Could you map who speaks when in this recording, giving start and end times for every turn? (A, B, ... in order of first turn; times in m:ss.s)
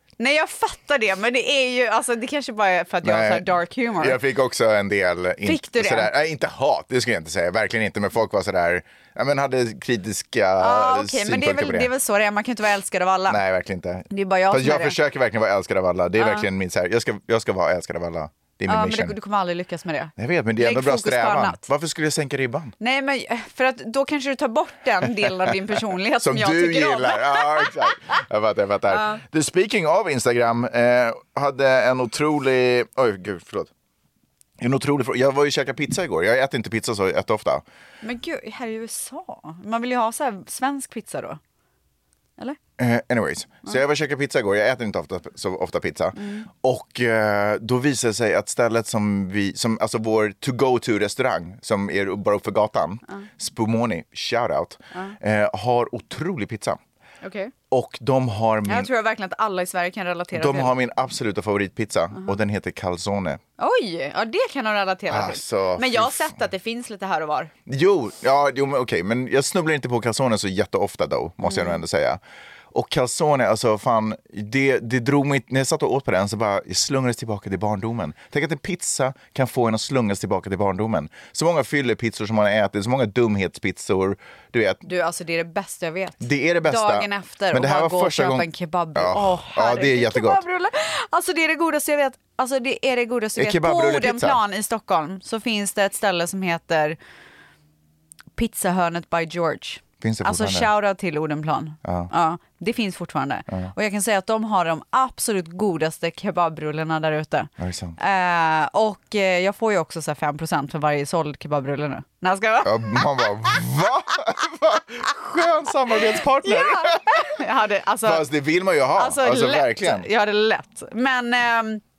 0:00.2-0:04.2 A
0:03.0-0:11.9 B
0:05.4-0:06.1 A
0:10.6-0:13.4 A
0:13.3-0:19.1 B
0:14.1-0:15.0 A
0:16.2-0:16.5 A
0:18.7-0:21.6 A
0:20.2-0:22.7 B
0:22.8-0:28.0 A
0:26.2-0:33.7 B
0:28.9-0:29.2 A
0:34.6-0:37.6 B
0:38.0-0:41.4 A
0:42.8-0:56.8 B
0:46.2-0:46.5 A
0:57.2-0:57.5 A
0:57.7-0:58.9 B
0:58.7-1:00.7 A
1:00.3-1:03.4 B
1:03.6-1:07.5 A
1:05.1-1:06.3 B
1:07.7-1:12.2 B
1:11.4-1:11.8 A
1:12.7-1:24.8 B
1:24.8-1:37.0 A
1:26.2-1:30.4 B
1:33.4-1:34.4 B
1:38.4-1:53.6 A
1:40.0-1:40.7 B
1:41.8-1:42.1 B
1:47.6-1:48.0 B
1:52.6-1:57.3 B
1:56.4-1:58.3 A
1:58.0-2:00.1 B
1:58.9-2:01.8 A